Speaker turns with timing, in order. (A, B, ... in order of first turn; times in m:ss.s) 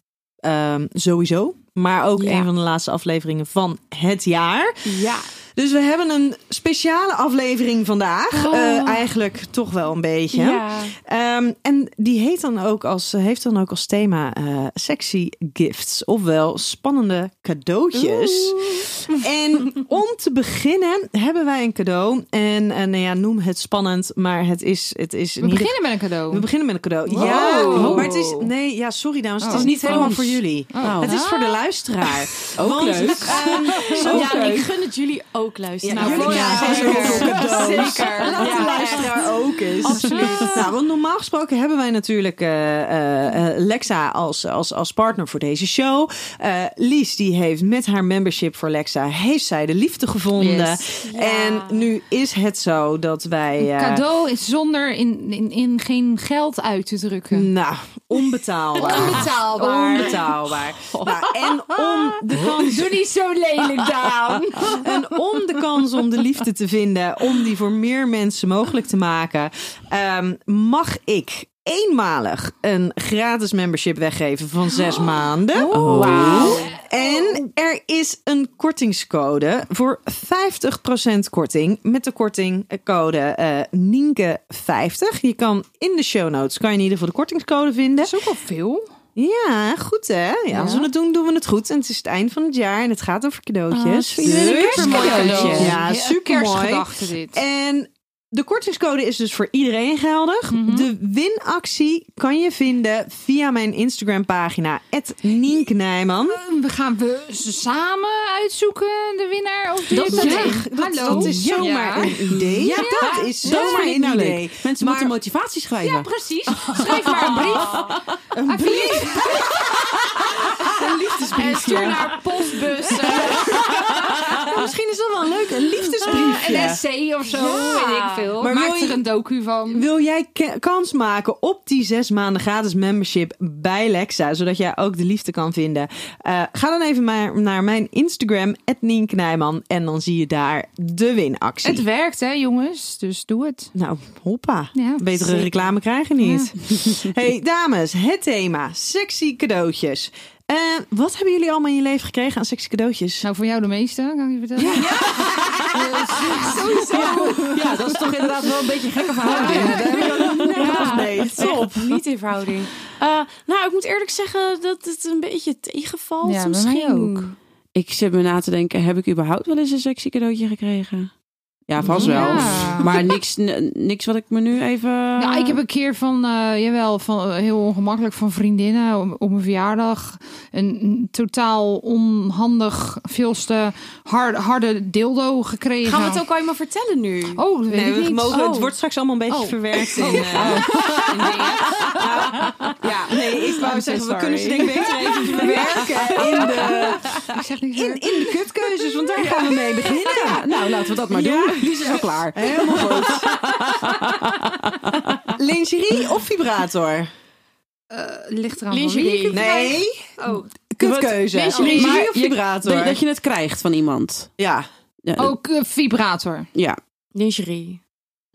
0:00.4-0:34.7 A
0:02.2-0:02.5 B
0:04.8-0:05.3 B
0:08.3-0:09.0 B
0:10.3-0:11.0 B
0:18.0-0:18.9 B
0:25.4-0:26.5 C
0:27.1-0:28.5 C
0:27.3-0:28.1 B
0:27.5-0:28.2 D
0:29.4-0:31.6 C
0:29.5-0:30.1 B
0:29.5-0:30.2 D
0:30.8-0:31.1 D
0:32.6-0:34.6 D
0:33.2-0:40.7 B
0:35.8-0:54.0 A
0:35.9-0:38.9 C
0:36.0-0:38.9 D
0:39.9-0:40.6 C
0:50.4-0:50.9 C
0:51.0-0:51.9 B
0:53.6-0:57.5 C
0:57.3-1:03.0 A
0:58.8-1:00.4 C
0:58.8-0:59.2 B
1:00.9-1:02.1 B
1:02.4-1:04.9 C
1:04.2-1:28.1 A
1:15.5-1:17.4 C
1:15.7-1:16.6 D
1:15.9-1:16.7 B
1:28.0-1:28.9 C
1:29.2-1:46.4 A
1:30.5-1:30.9 C
1:33.7-1:35.8 B
1:33.7-1:35.8 D
1:34.2-1:37.4 C
1:40.5-1:40.9 C
1:46.2-1:53.9 C
1:49.9-1:50.6 B
1:49.9-1:55.2 A
1:51.1-1:51.6 D
1:52.2-1:56.1 D
1:55.8-2:01.8 C
1:56.6-1:57.3 D
1:57.4-1:58.0 B
1:58.3-2:01.9 A
2:01.3-2:03.7 B
2:02.8-2:03.7 C
2:03.1-2:06.8 A
2:06.0-2:09.9 C
2:07.3-2:08.3 B
2:08.4-2:09.0 A
2:09.7-2:21.8 A
2:21.6-2:23.7 C
2:23.7-2:33.2 A
2:24.7-2:25.7 C
2:26.2-2:26.5 C
2:33.2-2:37.8 C
2:34.6-2:35.2 B
2:34.6-2:35.7 A
2:35.3-2:35.6 D
2:36.3-2:37.3 A
2:36.4-2:37.3 B
2:36.9-2:40.9 D
2:39.2-2:40.9 C
2:39.2-2:41.9 A
2:39.5-2:47.4 B
2:46.2-2:47.3 C
2:47.8-2:51.1 D
2:51.7-2:55.6 D
2:51.8-2:53.1 A
2:52.0-2:52.9 C
2:55.2-3:06.2 C
3:05.8-3:07.4 B
3:07.4-3:08.4 C
3:07.7-3:10.9 A
3:08.3-3:08.7 B
3:09.3-3:12.0 C
3:10.4-3:10.9 D
3:11.8-3:20.5 A
3:13.4-3:20.4 C
3:14.1-3:14.5 D
3:20.1-3:25.3 D
3:21.1-3:24.1 A
3:25.3-3:27.1 A
3:27.9-3:30.5 C
3:28.7-3:29.7 B
3:29.3-3:30.2 A
3:30.7-3:33.0 A
3:30.8-3:34.3 D
3:31.5-3:32.1 C
3:34.4-3:34.7 A
3:35.0-3:35.4 D
3:35.2-3:36.5 C
3:36.5-3:36.8 D
3:37.2-3:37.8 B